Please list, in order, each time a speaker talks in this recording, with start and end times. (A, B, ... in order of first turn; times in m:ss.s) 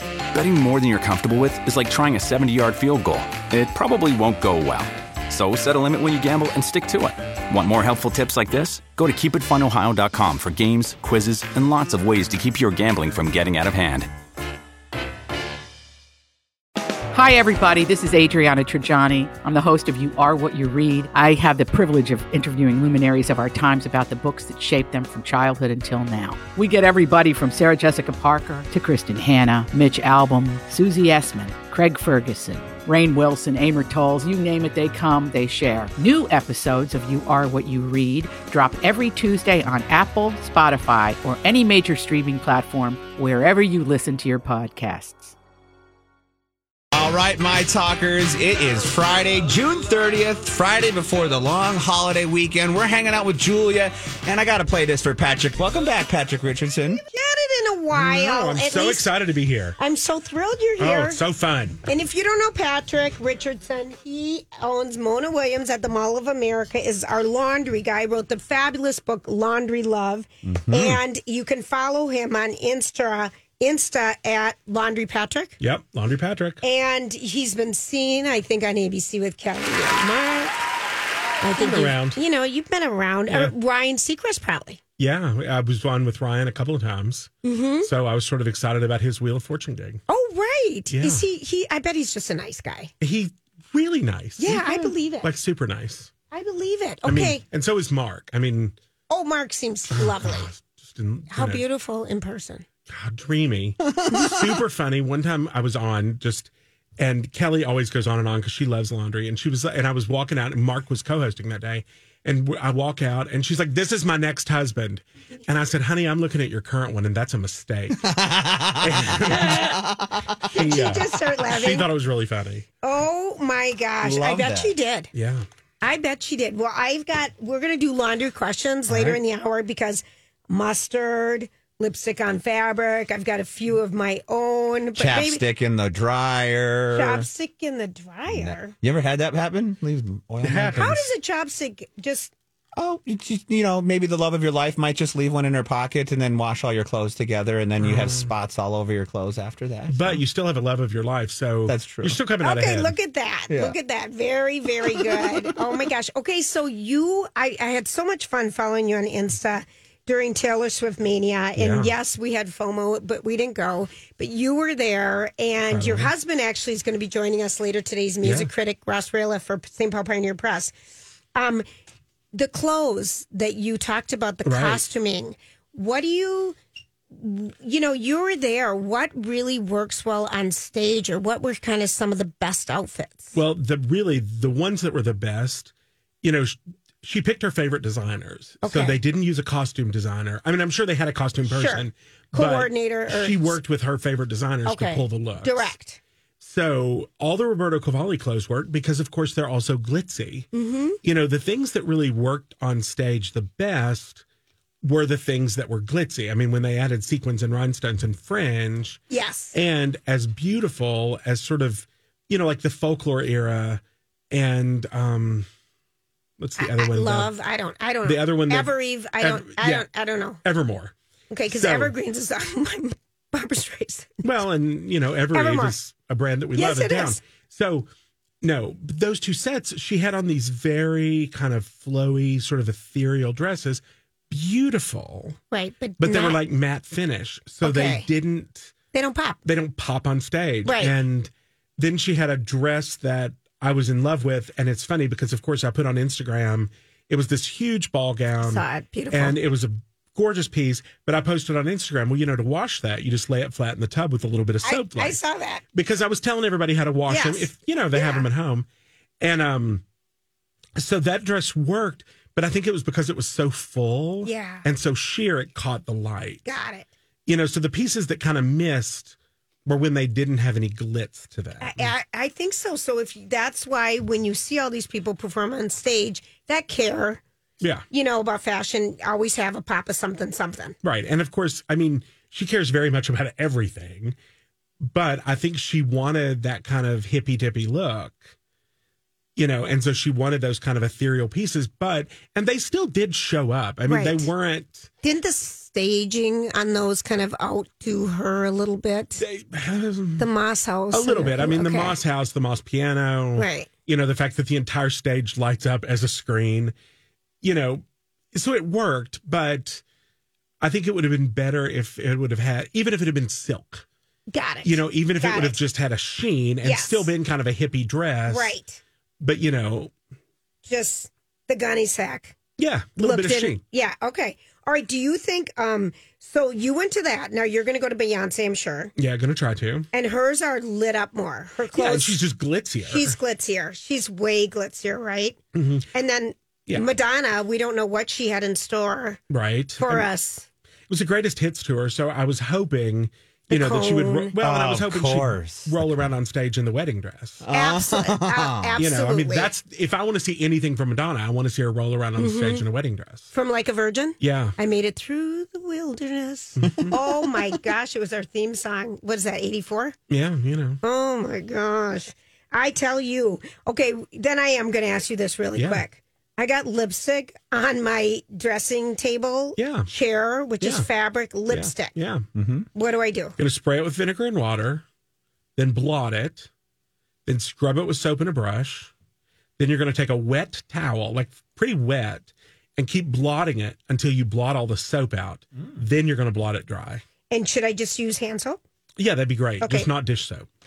0:00.3-0:14.1 A
0:17.1-0:45.3 B
0:46.9-0:57.0 C
0:57.1-0:59.1 D
0:57.9-0:59.8 E
0:59.8-1:01.2 D
1:00.8-1:01.8 E
1:01.8-1:15.6 D
1:10.4-1:11.0 C
1:15.6-1:16.6 E
1:16.6-1:20.6 D
1:21.4-1:24.8 D
1:21.6-1:22.2 E
1:25.0-1:30.0 E
1:27.4-1:27.9 D
1:30.1-1:32.9 D
1:30.9-1:31.2 E
1:33.0-1:36.1 E
1:34.4-1:35.3 D
1:36.3-1:37.4 D
1:37.0-1:38.8 E
1:39.1-1:40.5 D
1:39.9-1:41.6 E
1:41.3-1:42.6 D
1:42.9-1:58.1 E
1:58.0-2:00.9 C
1:58.8-1:59.8 E
2:00.5-2:01.9 D
2:00.5-2:02.6 E
2:02.8-2:05.1 D
2:04.0-2:04.7 C
2:05.1-2:05.4 E
2:05.8-2:15.4 D
2:14.9-2:17.3 C
2:16.9-2:18.7 D
2:18.3-2:21.0 C
2:20.4-2:21.1 E
2:20.7-2:22.3 D
2:22.8-2:30.2 C
2:27.8-2:28.3 E
2:29.9-2:32.9 E
2:31.6-2:32.2 C
2:32.4-2:50.7 D
2:33.5-2:33.8 C
2:41.6-2:41.9 E
2:45.7-2:46.1 E
2:48.2-2:48.5 E
2:51.3-2:51.6 D
2:52.3-2:56.6 D
2:54.4-2:54.8 E
2:57.1-3:03.4 D
3:03.3-3:15.7 E
3:08.6-3:09.0 D
3:11.4-3:13.6 D
3:14.6-3:16.0 D
3:16.4-3:20.5 E
3:20.5-3:21.0 D
3:21.0-3:24.2 E
3:24.8-3:29.0 E
3:29.1-3:29.6 D
3:29.5-3:35.5 E
3:36.4-3:37.3 E
3:36.6-3:40.4 D
3:38.0-3:39.9 E
3:40.4-3:40.9 E
3:41.3-3:44.2 D
3:41.5-3:41.9 E
3:44.2-3:47.9 E
3:45.3-3:45.7 D
3:46.6-3:47.2 D
3:48.4-3:55.4 E
3:55.5-3:56.4 D
3:56.0-3:58.7 E
3:57.6-3:58.0 D
3:58.9-3:59.4 D
3:59.4-4:15.2 E
4:00.6-4:00.9 D
4:08.4-4:09.4 D
4:14.6-4:15.6 D
4:15.7-4:18.6 E
4:17.1-4:18.3 D
4:19.2-4:19.8 E
4:20.8-4:26.4 E
4:24.2-4:24.6 D
4:26.4-4:26.9 D
4:27.2-4:31.9 E
4:31.6-4:37.2 D
4:37.6-4:37.8 E
4:37.9-4:40.8 D
4:40.8-4:44.1 E
4:44.8-4:48.3 E
4:49.4-4:54.9 E
4:53.9-4:54.3 D
4:55.0-4:59.2 D
4:59.2-5:00.3 E
5:00.2-5:02.0 D
5:00.9-5:06.7 E
5:03.4-5:03.7 D
5:07.4-5:09.8 E
5:10.6-5:13.8 E
5:14.3-5:15.6 D
5:14.6-5:18.5 E
5:16.6-5:17.1 D
5:18.3-5:18.8 D
5:19.2-5:19.9 E
5:20.6-5:22.4 D
5:22.6-5:23.6 E
5:23.0-5:28.9 D
5:29.0-5:29.9 E
5:29.9-5:32.2 D
5:31.7-5:33.2 E
5:32.9-5:35.4 D
5:35.5-5:35.9 E
5:35.9-5:39.2 D
5:39.3-5:40.1 E
5:39.8-5:40.4 D
5:40.9-5:47.4 E
5:43.5-5:44.3 D
5:44.4-5:46.0 C
5:47.4-5:48.8 C
5:47.5-5:49.5 D
5:48.8-5:53.3 E
5:52.2-5:52.6 D
5:53.3-6:00.0 D
5:54.2-5:54.5 E
5:56.6-5:56.9 E
6:00.1-6:00.8 E
6:00.8-6:12.0 D
6:05.6-6:05.8 E
6:09.6-6:09.9 E
6:10.6-6:10.9 E
6:11.5-6:12.2 E
6:12.3-6:12.6 C
6:12.7-6:13.4 D
6:13.4-6:14.8 E
6:15.6-6:16.5 E
6:17.2-6:18.9 E
6:19.6-6:27.0 E
6:27.3-6:28.6 D
6:29.0-6:30.5 E
6:29.6-6:29.9 D